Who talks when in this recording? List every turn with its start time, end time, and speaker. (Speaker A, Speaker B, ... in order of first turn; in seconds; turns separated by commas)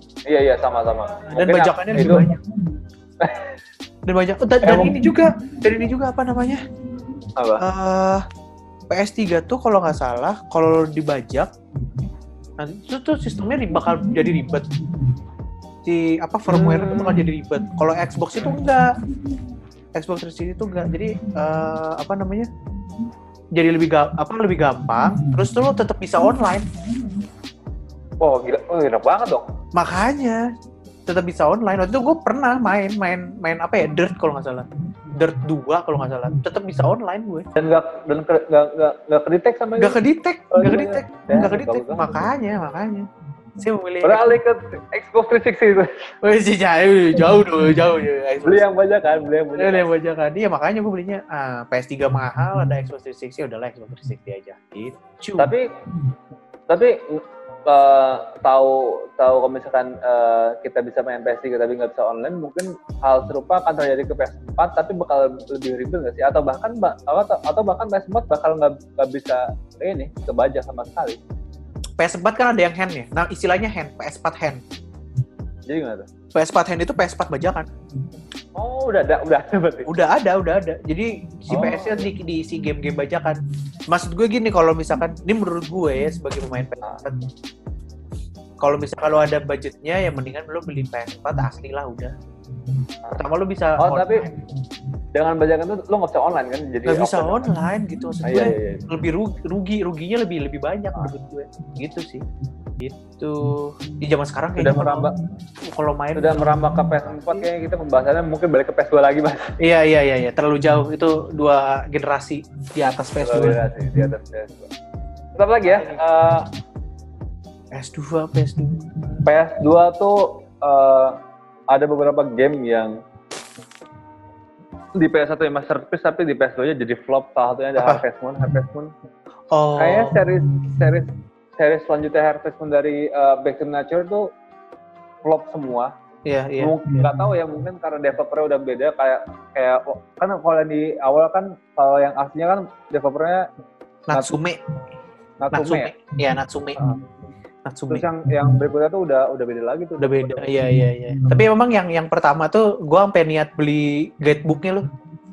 Speaker A: 0.3-2.3, Speaker B: 1.3-2.5, Speaker A: 3.2-3.5, Speaker B: 4.1-6.6, Speaker A: 4.6-5.0, Speaker A: 7.4-7.6, Speaker B: 7.6-8.2, Speaker B: 8.9-11.5, Speaker B: 12.6-14.8, Speaker B: 15.8-19.0, Speaker A: 16.5-17.2, Speaker B: 19.9-22.5, Speaker B: 23.6-26.7, Speaker A: 28.2-29.4, Speaker B: 29.7-30.5, Speaker B: 31.1-37.5, Speaker A: 37.5-40.0, Speaker B: 39.8-44.4, Speaker A: 40.5-42.3, Speaker A: 44.0-46.1, Speaker B: 46.2-48.7, Speaker A: 48.4-49.9, Speaker B: 49.5-55.5, Speaker A: 55.4-55.7, Speaker A: 56.7-71.2, Speaker B: 72.0-74.6, Speaker A: 75.7-76.1, Speaker B: 76.3-77.7, Speaker A: 78.6-79.9, Speaker B: 79.9-87.3, Speaker A: 81.5-82.1, Speaker B: 88.6-92.1, Speaker B: 93.2-94.5, Speaker A: 93.8-94.3, Speaker A: 95.1-97.5, Speaker B: 96.8-102.2, Speaker A: 98.2-98.9, Speaker B: 102.8-105.1, Speaker A: 104.6-105.2, Speaker B: 105.6-107.5, Speaker A: 106.2-109.6, Speaker B: 109.6-114.0, Speaker A: 113.2-114.7, Speaker A: 115.4-116.5, Speaker B: 115.7-116.1, Speaker B: 117.7-119.2, Speaker A: 119.2-121.2, Speaker A: 121.7-123.0, Speaker A: 125.0-128.9, Speaker B: 127.8-128.0, Speaker B: 129.5-130.3, Speaker A: 129.8-134.3, Speaker A: 135.2-135.9, Speaker B: 136.2-137.2, Speaker A: 136.6-143.5, Speaker B: 144.1-144.7, Speaker A: 145.4-145.9, Speaker B: 145.5-147.0, Speaker B: 147.7-148.1, Speaker A: 147.9-150.7, Speaker B: 150.0-154.9